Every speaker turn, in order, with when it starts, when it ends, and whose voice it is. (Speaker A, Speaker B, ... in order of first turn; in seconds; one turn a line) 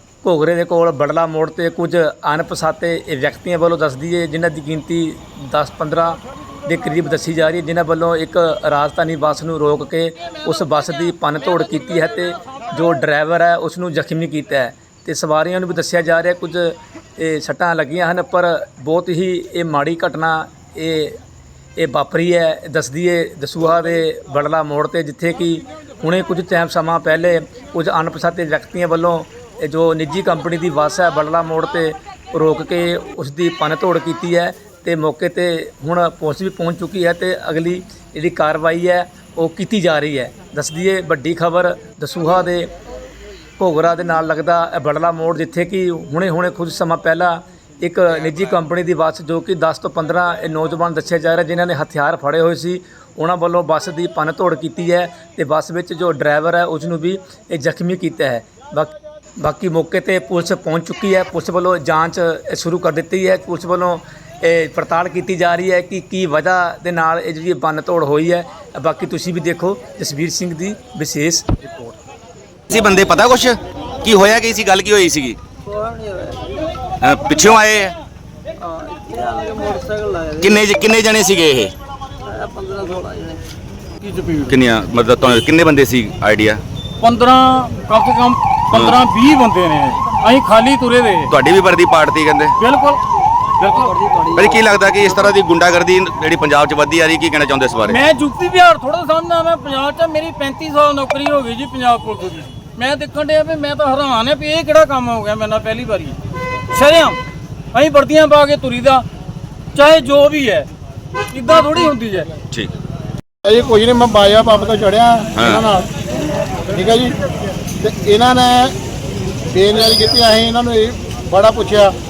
Speaker A: 0.2-21.2
Speaker A: 21.8-42.7
Speaker A: 43.6-72.0
Speaker B: 72.7-75.4
Speaker C: 75.7-76.6
Speaker B: 77.0-78.0
Speaker C: 78.6-80.6
Speaker B: 80.4-81.7
Speaker C: 82.2-83.4
Speaker D: 84.0-84.6
Speaker B: 84.5-86.6
Speaker D: 87.0-91.3
Speaker B: 88.7-89.0
Speaker B: 91.3-92.6
Speaker D: 92.6-93.0
Speaker D: 93.6-94.0
Speaker C: 93.7-94.6
Speaker B: 94.3-98.0
Speaker D: 97.9-106.2
Speaker D: 106.7-107.2
Speaker D: 107.7-109.1
Speaker D: 109.7-110.7
Speaker D: 111.3-112.4
Speaker E: 113.4-115.9
Speaker B: 115.4-115.7
Speaker E: 116.7-117.2
Speaker E: 117.8-118.8
Speaker E: 119.5-122.0